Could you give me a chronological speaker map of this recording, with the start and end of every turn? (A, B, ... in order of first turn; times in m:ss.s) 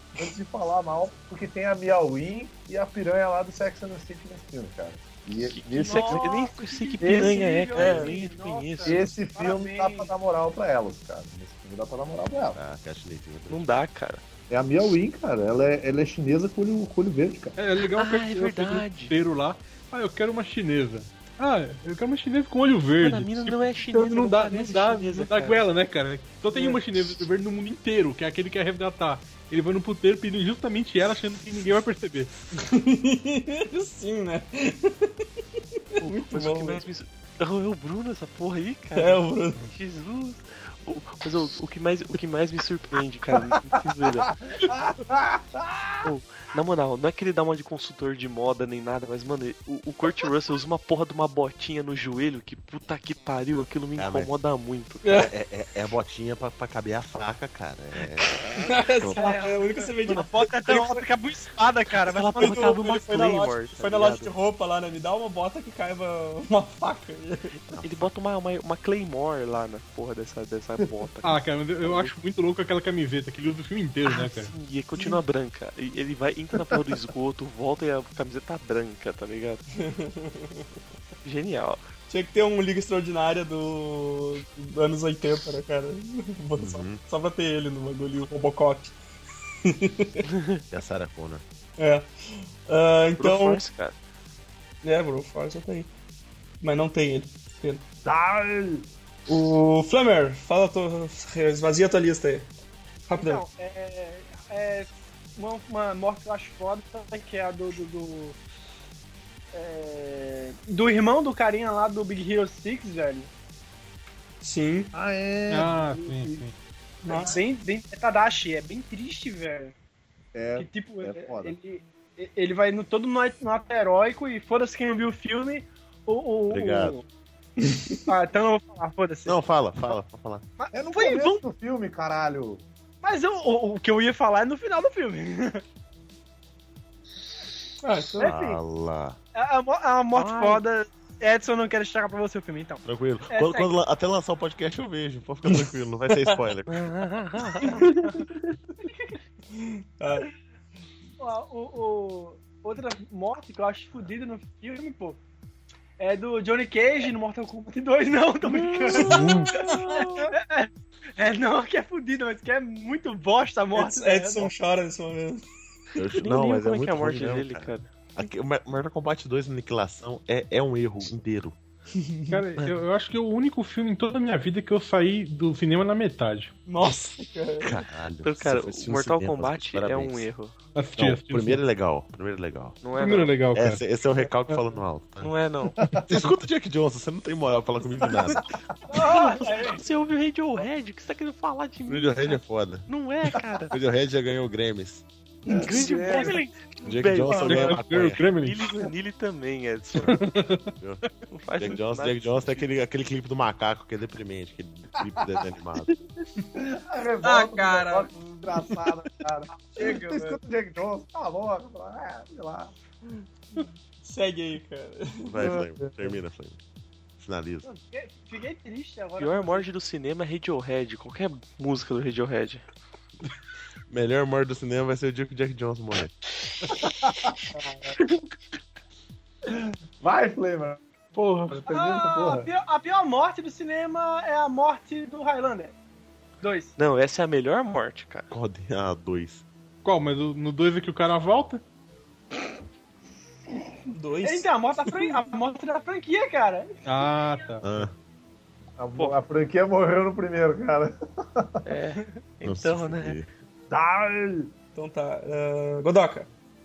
0:00.2-0:06.3 A
0:05.4-0:09.1 B
0:05.8-0:10.1 C
0:07.0-0:07.3 A
0:07.8-0:08.1 D
0:08.8-0:12.6 A
0:12.5-0:13.6 E
0:13.5-0:14.2 B
0:14.5-0:17.6 A
0:17.6-0:32.3 F
0:17.9-0:19.1 B
0:23.0-0:25.6 B
0:26.5-0:26.8 D
0:32.5-0:36.8 D
0:36.0-0:44.3 B
0:38.9-0:39.6 D
0:44.3-0:46.1 A
0:46.0-0:55.3 B
0:54.0-0:54.3 E
0:55.0-0:55.3 D
0:55.1-0:59.4 E
0:58.6-1:00.4 D
0:59.2-1:02.7 C
1:02.0-1:04.3 B
1:02.3-1:07.5 D
1:07.7-1:08.1 E
1:07.8-1:12.1 B
1:11.2-1:14.5 F
1:14.0-1:19.6 B
1:19.7-1:20.6 D
1:21.2-1:21.8 B
1:22.1-1:29.0 D
1:26.6-1:27.0 E
1:29.6-1:30.2 D
1:30.4-1:30.6 B
1:30.7-1:31.4 E
1:31.8-1:33.6 D
1:33.2-1:34.0 B
1:34.8-1:35.9 D
1:36.6-1:37.8 D
1:38.0-1:38.8 A
1:39.3-1:42.5 D
1:43.1-1:43.4 D
1:43.1-1:48.4 C
1:49.5-1:53.3 C
1:54.4-1:54.9 D
1:54.9-1:56.4 A
1:55.5-1:56.5 F
1:57.0-1:57.4 D
1:57.0-1:59.7 C
2:00.3-2:01.5 A
2:00.6-2:07.0 C
2:06.5-2:07.0 E
2:07.6-2:08.1 D
2:08.1-2:09.4 C
2:09.2-2:10.4 E
2:10.6-2:11.4 C
2:10.7-2:12.6 A
2:13.0-2:15.6 C
2:17.8-2:18.3 D
2:18.2-2:18.6 C
2:18.2-2:19.2 E
2:19.3-2:23.7 C
2:20.1-2:20.6 B
2:22.8-2:27.1 E
2:26.7-2:27.8 B
2:27.6-2:28.2 C
2:29.5-2:30.3 D
2:31.2-2:35.2 C
2:36.0-2:44.5 C
2:38.5-2:39.6 B
2:38.9-2:40.2 D
2:39.0-2:39.5 E
2:43.7-2:45.4 D
2:46.0-2:51.6 E
2:46.2-2:47.9 B
2:51.9-2:52.4 D
2:52.3-2:56.5 F
2:56.6-2:57.7 D
2:57.6-3:00.3 E
2:58.2-3:00.5 B
3:00.8-3:01.6 F
3:01.0-3:02.8 E
3:02.8-3:03.3 B
3:02.9-3:03.8 F
3:03.5-3:05.3 E
3:05.2-3:05.8 B
3:05.8-3:06.2 A
3:06.1-3:08.4 E
3:08.9-3:09.8 C
3:08.9-3:13.8 B
3:11.9-3:12.9 E
3:13.7-3:15.0 E
3:15.5-3:16.3 A
3:15.5-3:20.2 B
3:15.7-3:16.3 C
3:16.8-3:18.2 E
3:17.4-3:18.9 F
3:20.0-3:20.7 F
3:21.3-3:22.6 B
3:21.6-3:25.9 E
3:26.6-3:32.7 A
3:27.2-3:28.7 D
3:29.8-3:30.3 D
3:29.8-3:30.2 C
3:34.0-3:35.5 D
3:35.2-3:36.6 E
3:35.4-3:36.2 A
3:37.2-3:37.7 E
3:37.6-3:39.7 C
3:39.2-3:42.6 B
3:43.9-3:46.1 E
3:46.7-3:47.6 A
3:49.5-3:50.8 A
3:51.2-3:55.7 C
3:51.5-3:52.5 A
3:56.4-3:56.7 C
3:56.8-3:58.3 B
3:58.3-3:59.4 E
3:59.8-4:01.6 F
4:03.9-4:05.1 D
4:04.2-4:06.8 C
4:06.8-4:07.6 F
4:07.6-4:07.9 E
4:08.8-4:11.6 A
4:11.6-4:13.2 B
4:12.4-4:13.3 E
4:13.7-4:14.5 A
4:14.7-4:16.3 D